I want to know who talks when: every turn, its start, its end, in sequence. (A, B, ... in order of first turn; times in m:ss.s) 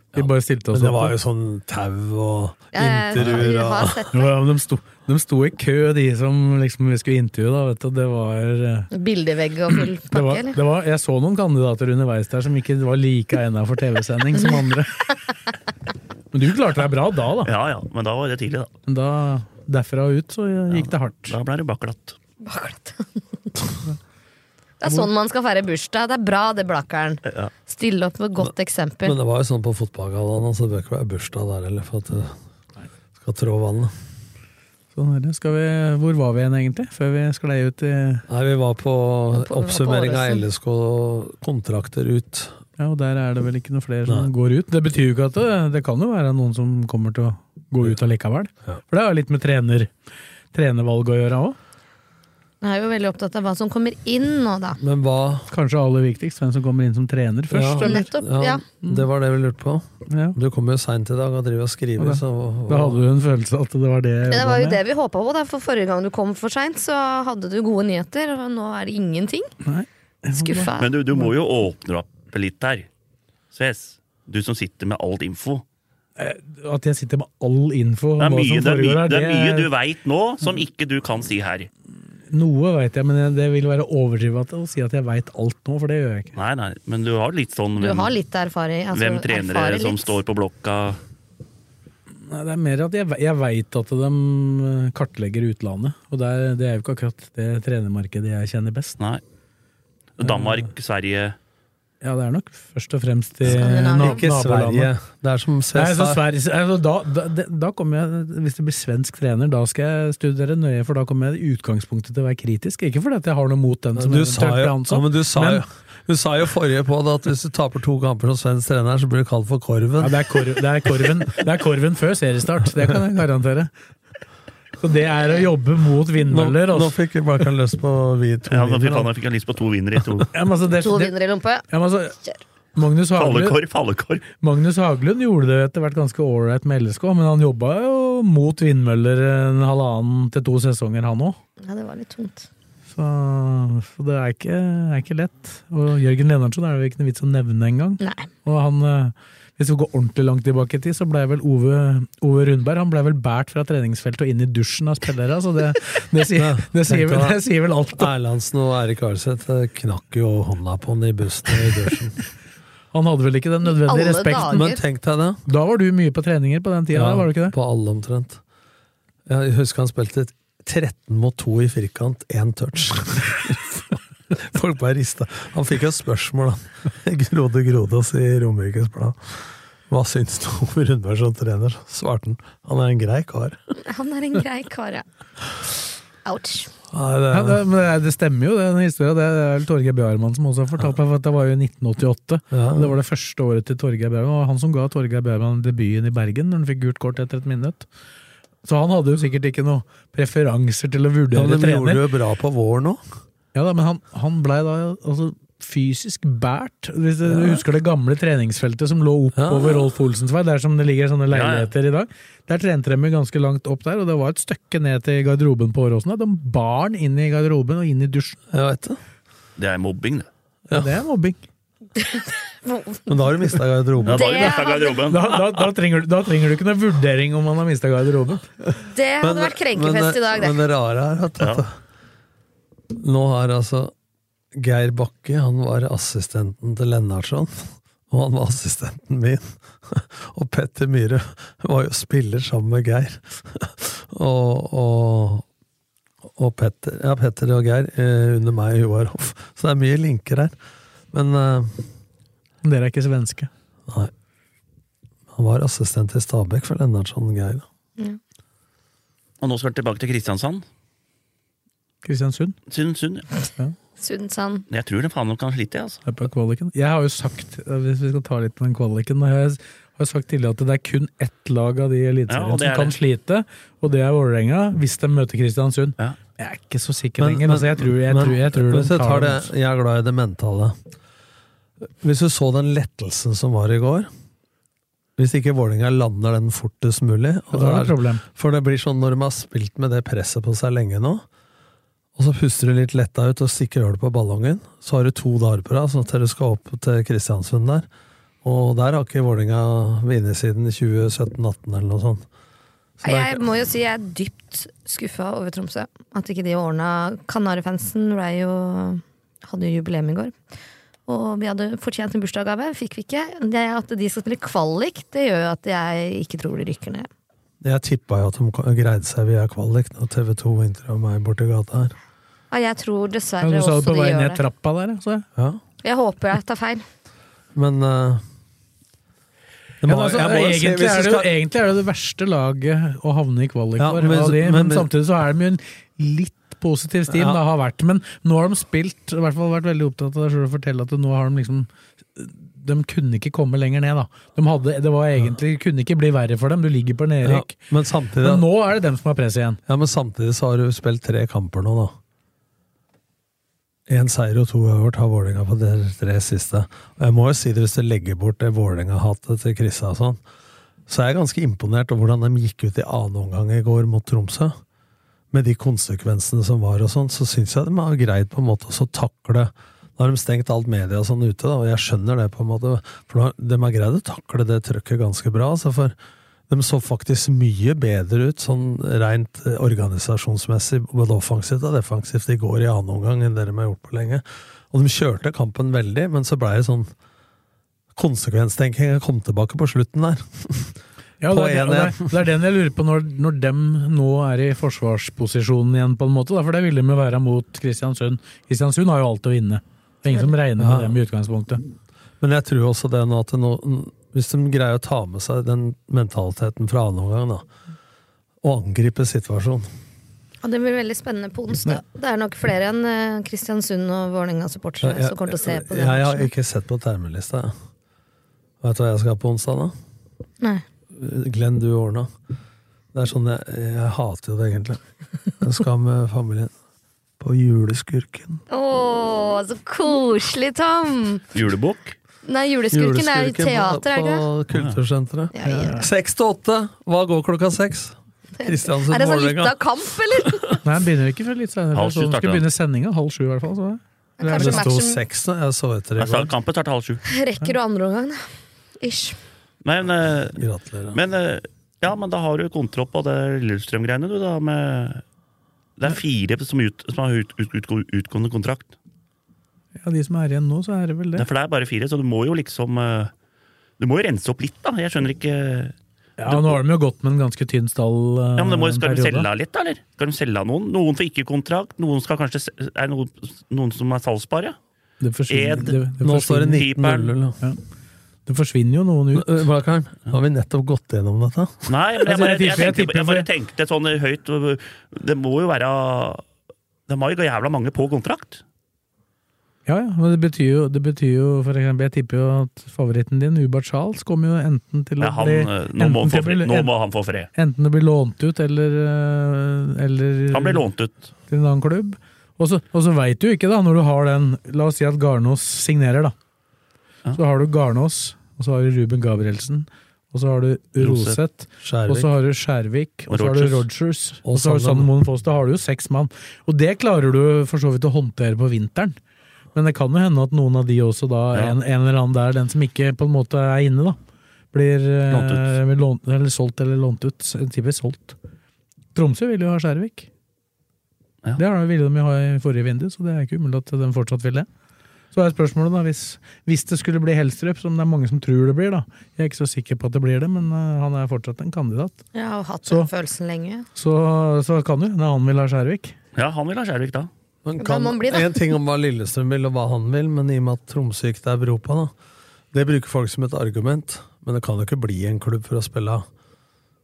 0:00.1-0:01.2 A
0:00.7-0:04.0 B
0:02.7-0:04.3 C
0:04.1-0:08.9 A
0:08.9-0:10.6 C
0:10.1-0:15.1 A
0:14.3-0:14.6 C
0:16.3-0:17.5 A
0:17.4-0:18.7 D
0:18.9-0:21.3 A
0:20.7-0:22.2 D
0:22.4-0:23.2 C
0:24.8-0:29.2 C
0:29.0-0:32.4 B
0:33.2-0:33.9 B
0:34.9-0:38.2 A
0:38.3-0:42.6 B
0:39.3-0:40.4 C
0:42.8-0:49.9 A
0:50.5-0:51.6 A
0:52.6-0:54.8 C
0:54.8-0:55.5 B
0:55.5-0:58.1 A
0:57.5-1:03.0 B
0:57.8-0:58.6 C
1:00.1-1:00.4 A
1:02.0-1:04.8 A
1:04.3-1:09.5 C
1:09.6-1:10.7 A
1:10.3-1:10.9 C
1:10.8-1:12.9 D
1:13.5-1:15.6 D
1:16.2-1:19.7 A
1:18.2-1:21.7 D
1:22.3-1:26.3 A
1:26.3-1:28.1 D
1:27.8-1:30.2 C
1:28.9-1:31.0 D
1:32.3-1:39.0 A
1:40.2-1:41.4 D
1:40.2-1:40.6 A
1:42.0-1:44.9 A
1:43.4-1:46.2 B
1:43.4-1:44.2 C
1:45.7-1:55.6 A
1:53.9-2:00.4 B
2:00.0-2:03.7 A
2:04.8-2:07.0 A
2:06.3-2:09.1 B
2:08.5-2:10.3 D
2:10.3-2:11.1 A
2:10.7-2:11.7 C
2:11.7-2:12.2 A
2:12.8-2:13.6 A
2:13.2-2:14.2 D
2:14.4-2:21.4 A
2:21.6-2:22.5 C
2:22.9-2:38.1 A
2:28.0-2:28.3 C
2:36.3-2:37.4 B
2:37.9-2:42.2 B
2:42.9-2:44.6 A
2:43.7-2:44.8 C
2:44.5-2:45.4 B
2:45.5-2:47.5 A
2:46.9-2:48.4 B
2:49.3-3:03.6 B
3:03.8-3:05.0 C
3:06.2-3:06.7 C
3:06.9-3:07.6 B
3:07.3-3:17.9 A
3:12.5-3:13.0 B
3:18.6-3:22.0 A
3:21.3-3:23.0 B
3:23.5-3:38.4 A
3:27.3-3:27.6 B
3:29.4-3:29.9 B
3:31.3-3:31.7 D
3:38.5-3:39.0 B
3:39.6-3:40.3 D
3:40.7-3:41.4 A
3:42.0-3:43.2 C
3:43.1-3:44.5 B
3:44.0-3:45.0 C
3:44.0-3:45.4 D
3:45.1-3:48.5 A
3:48.8-3:50.6 C
3:49.2-3:51.7 B
3:52.9-3:53.9 B
3:54.5-4:05.4 B
4:06.2-4:10.5 B
4:11.1-4:11.9 B
4:12.6-4:13.5 A
4:15.3-4:17.6 B
4:19.4-4:20.6 D
4:22.0-4:22.6 A
4:22.7-4:23.3 D
4:24.0-4:24.6 C
4:24.7-4:26.0 D
4:26.0-4:39.5 A
4:32.3-4:33.0 D
4:37.2-4:40.8 B
4:42.0-4:44.1 B
4:45.2-4:51.2 B
4:47.5-4:48.2 A
4:52.2-4:57.9 B
4:58.4-5:02.2 B
5:03.0-5:03.4 B
5:03.0-5:10.3 C
5:11.1-5:17.1 C
5:17.6-5:21.9 B
5:22.5-5:24.4 C
5:23.4-5:25.2 A
5:25.4-5:25.6 B
5:25.8-5:26.8 C
5:27.5-5:28.2 B
5:29.8-5:31.3 B
5:29.9-5:47.6 A
5:33.8-5:34.9 B
5:37.1-5:37.4 B
5:47.2-5:48.5 B
5:48.2-5:49.6 A
5:49.7-5:51.9 B
5:53.9-6:00.2 B
6:00.9-6:04.6 B
6:05.3-6:16.0 B
6:16.5-6:26.9 B
6:27.9-6:32.2 B
6:31.2-6:41.6 A
6:40.6-6:41.0 B
6:42.2-6:47.4 B
6:48.4-6:49.7 B
6:50.4-6:56.3 C
6:54.8-6:57.5 B
6:58.6-6:59.7 B
7:00.9-7:02.1 B
7:02.9-7:04.8 B
7:05.4-7:06.5 B
7:07.2-7:08.4 B
7:08.5-7:11.2 C
7:11.3-7:11.9 D
7:12.2-7:14.2 C
7:12.7-7:19.6 B
7:15.3-7:15.8 C
7:15.4-7:15.9 A
7:18.4-7:20.6 C
7:20.1-7:20.5 B
7:20.6-7:24.6 A
7:21.7-7:22.4 D
7:24.2-7:25.0 C
7:24.3-7:26.3 B
7:26.0-7:27.0 D
7:27.1-7:28.2 C
7:28.8-7:29.2 C
7:29.6-7:30.4 D
7:30.4-7:31.0 B
7:30.9-7:35.0 D
7:35.8-7:38.7 D
7:39.8-7:41.2 A
7:41.2-7:43.1 D
7:43.8-7:45.7 D
7:46.2-7:49.3 A
7:46.2-7:46.6 D
7:48.4-7:54.6 D
7:55.0-7:56.6 A
7:55.3-7:55.8 D
7:56.0-7:57.4 B
7:56.6-7:57.1 D
7:58.2-7:59.5 A
7:59.1-8:01.7 B
8:01.7-8:06.2 D
8:02.0-8:03.3 A
8:06.9-8:08.4 D
8:09.6-8:16.7 A
8:15.0-8:17.3 D
8:17.3-8:20.6 A
8:20.3-8:21.1 D
8:21.3-8:26.1 A
8:27.1-8:39.0 A
8:30.8-8:31.2 D
8:31.6-8:32.1 B
8:33.1-8:33.6 D
8:34.2-8:34.9 B
8:39.5-8:44.0 A
8:44.5-8:48.2 A
8:45.1-8:45.5 D
8:48.9-8:50.1 A
8:51.4-8:54.5 A
8:55.1-9:02.0 A
9:02.1-9:03.7 C
9:03.7-9:05.9 A
9:06.1-9:07.1 D
9:07.4-9:11.9 B
9:07.6-9:08.5 C
9:12.5-9:16.0 B